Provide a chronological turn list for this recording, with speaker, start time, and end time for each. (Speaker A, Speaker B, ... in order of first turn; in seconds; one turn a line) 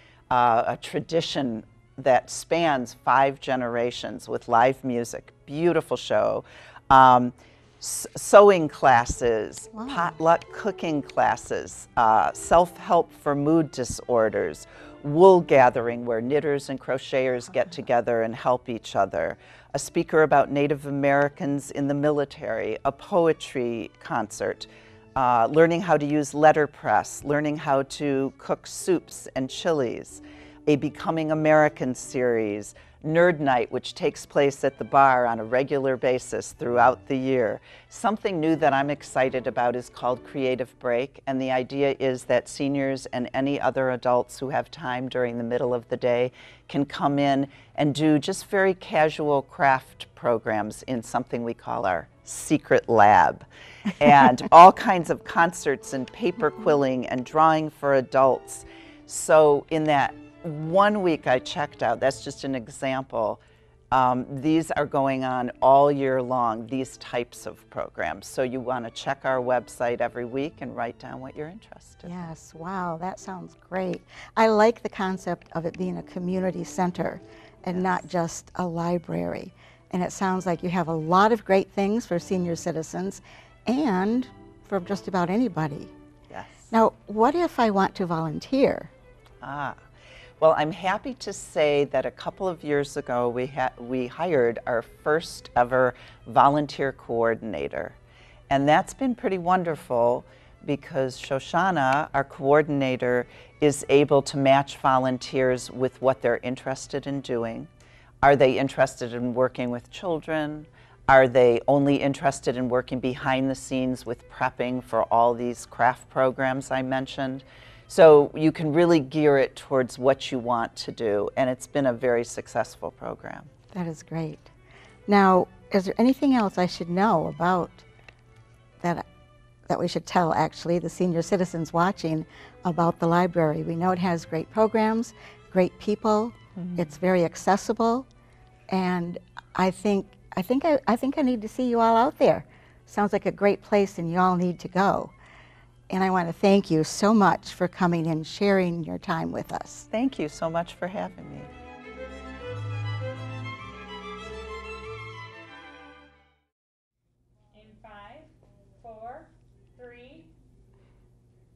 Speaker A: 0.3-53.5
Speaker A: 54.0-72.3
Speaker B: 72.0-85.9
Speaker A: 77.7-78.0
Speaker A: 86.3-86.7
Speaker B: 86.7-88.9
Speaker A: 89.4-89.8
Speaker A: 90.4-98.0
Speaker A: 98.5-107.7
Speaker A: 108.2-123.5
Speaker B: 123.7-124.5
Speaker B: 125.1-127.8
Speaker B: 129.7-138.1
Speaker B: 138.7-145.1
Speaker B: 145.9-149.9
Speaker A: 149.9-151.5
Speaker C: 157.6-158.3
Speaker C: 158.8-160.3